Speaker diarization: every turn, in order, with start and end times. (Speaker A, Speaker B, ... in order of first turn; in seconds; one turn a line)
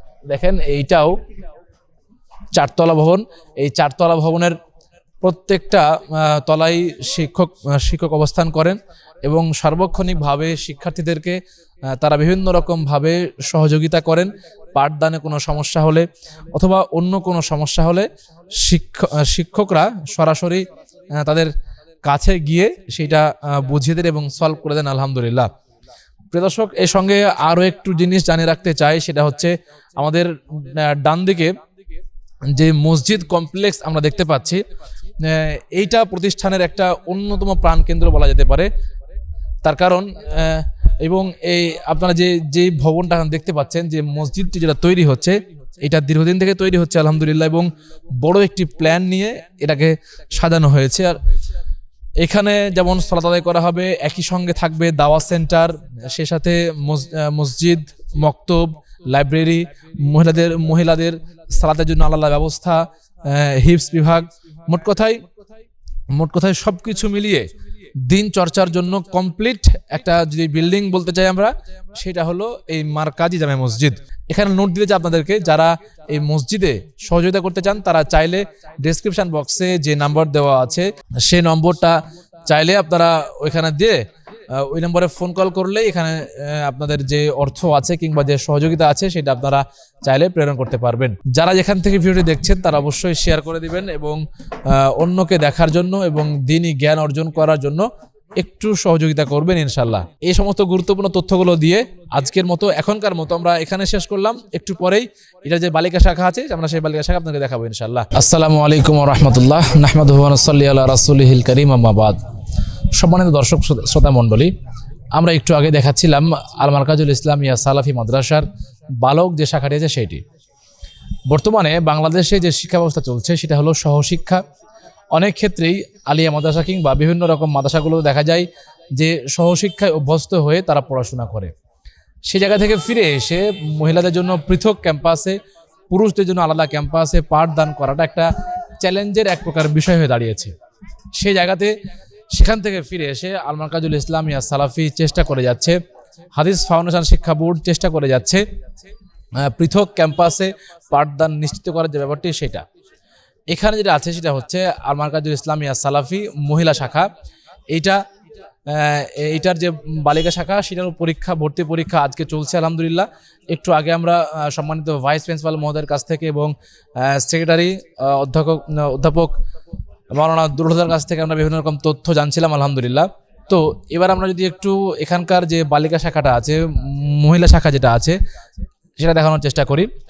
Speaker A: 0.3-1.2
Speaker A: 2.5-4.6
Speaker A: 5.2-18.1
Speaker A: 18.6-21.5
Speaker A: 22.1-25.5
Speaker A: 26.3-31.6
Speaker A: 32.5-34.6
Speaker A: 35.2-38.7
Speaker A: 39.6-51.2
Speaker A: 52.2-65.2
Speaker A: 66.1-67.5
Speaker A: 68.0-112.2
Speaker A: 113.0-114.5
Speaker A: 115.2-118.5
Speaker A: 119.0-120.2
Speaker A: 121.3-124.4
Speaker A: 125.2-131.5
Speaker A: 132.3-135.4
Speaker A: 135.9-140.6
Speaker A: 141.2-141.8
Speaker A: 142.3-145.8
Speaker A: 146.4-148.4
Speaker A: 149.4-152.7
Speaker A: 153.5-157.1
Speaker A: 157.7-158.0
Speaker A: 158.7-169.4
Speaker A: 170.1-178.2
Speaker A: 179.0-179.9